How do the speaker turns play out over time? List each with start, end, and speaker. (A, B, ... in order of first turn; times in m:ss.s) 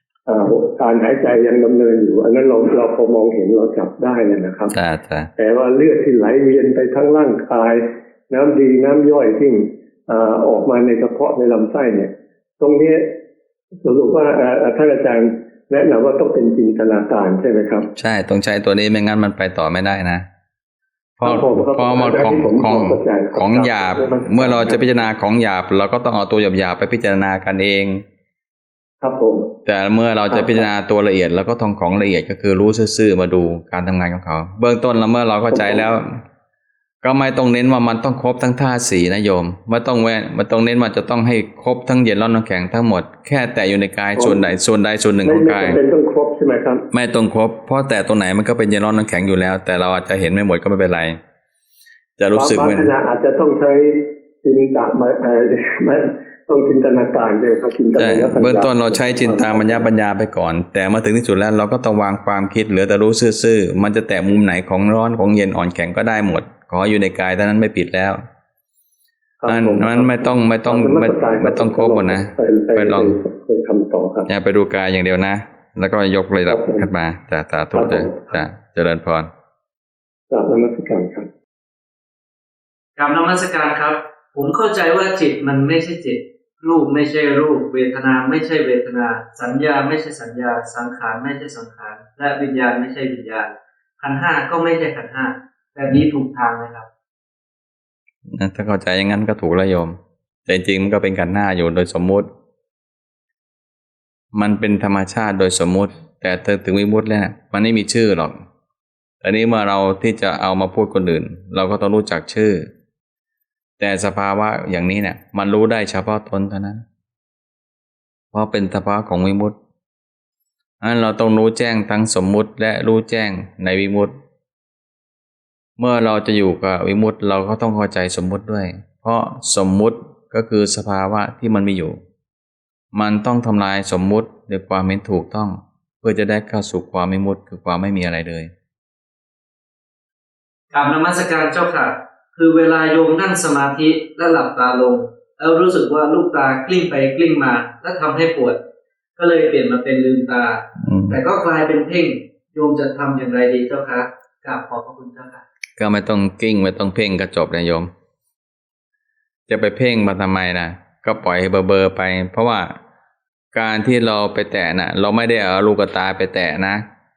0:00.3-0:04.7 A
0:04.7-0:05.3 B
0:05.4-0:13.2 A
0:13.8-0:17.9 A
0:18.0-0:20.3 B
0:21.2-0:28.0 B
0:21.2-0:25.0 A
0:29.0-0:29.5 A
0:29.6-0:36.2 B
0:30.3-0:30.7 A
0:35.5-0:35.8 A
0:37.0-0:45.8 B
0:44.2-0:44.4 A
0:45.2-0:46.8 A
0:46.9-0:51.2 B
0:52.2-0:52.9 B
0:52.3-0:59.8 A
0:58.0-1:08.2 B
1:09.4-1:14.3 A
1:09.5-1:13.2 B
1:14.3-1:19.3 B
1:16.5-1:16.9 A
1:17.7-1:18.4 A
1:20.3-1:21.3 A
1:23.0-1:36.9 C
1:38.2-1:42.3 B
1:44.3-1:48.4 B
1:49.2-1:52.7 B
1:53.8-1:56.8 B
1:58.3-1:59.6 B
2:00.8-2:04.2 B
2:05.8-2:12.0 B
2:12.9-2:18.5 B
2:20.7-2:28.6 C
2:29.2-2:35.4 C
2:30.8-2:31.2 B
2:35.8-2:37.9 B
2:39.5-2:42.7 B
2:43.5-2:46.8 B